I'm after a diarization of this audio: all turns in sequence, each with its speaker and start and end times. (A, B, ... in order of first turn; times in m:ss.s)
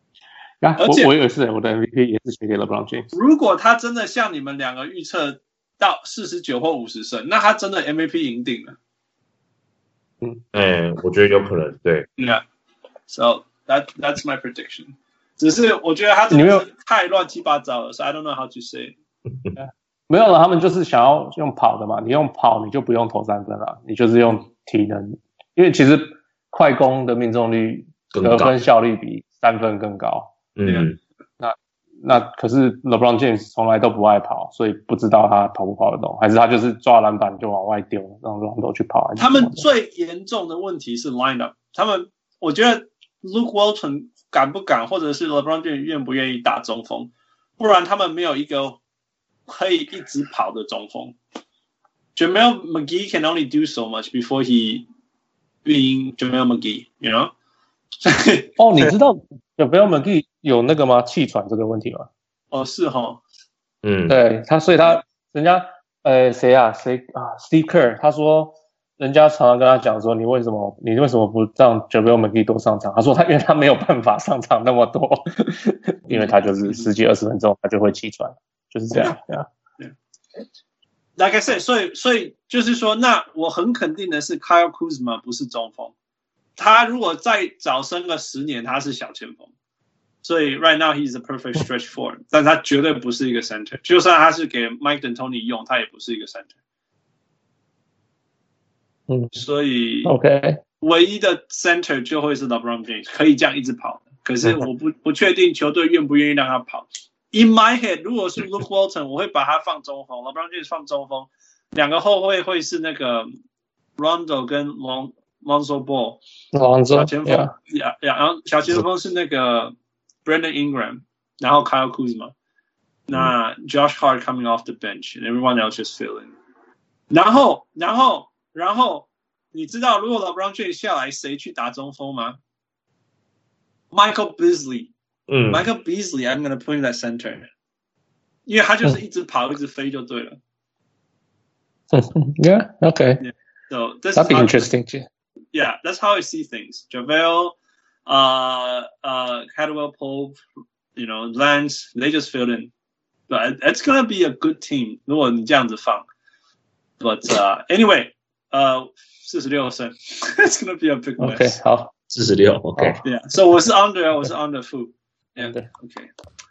0:00.6-0:03.1 A
0:00.8-0:01.1 B
0:03.1-0:08.8 B
0:10.5-0:12.1 C
0:12.2-0:12.4 B
0:13.1-0:18.9 B
0:16.3-0:16.6 A
0:19.6-0:30.3 A
0:28.1-0:28.6 C
0:30.6-0:31.0 C
0:30.6-0:30.9 B
0:31.4-0:39.6 A
0:39.2-0:48.8 B
0:49.5-0:51.1 B
0:52.2-0:54.9 B
0:55.6-0:57.3 B
0:58.0-0:58.9 B
0:58.6-1:02.1 A
1:02.5-1:03.2 B
1:03.8-1:04.2 C
1:04.1-1:19.5 A
1:16.1-1:16.9 B
1:21.2-1:25.9 B
1:26.6-1:29.5 B
1:30.2-1:36.5 B
1:39.3-1:40.1 B
1:40.0-1:40.6 A
1:40.8-1:53.3 B
1:54.0-1:56.2 B
1:56.5-1:57.5 A
1:56.9-1:59.7 B
2:00.2-2:02.3 B
2:03.1-2:06.3 B
2:07.1-2:12.4 B
2:13.9-2:14.9 B
2:15.3-2:15.6 C
2:15.5-2:17.5 B
2:18.5-2:20.4 B
2:21.9-2:23.2 A
2:23.2-2:24.7 B
2:24.1-2:25.0 A
2:25.5-2:30.4 B
2:31.0-2:32.7 B
2:33.3-2:36.0 B
2:37.0-2:41.6 B
2:41.2-2:41.9 A
2:42.1-2:43.0 C
2:42.8-2:43.0 A
2:43.0-2:46.1 B
2:45.4-2:45.7 A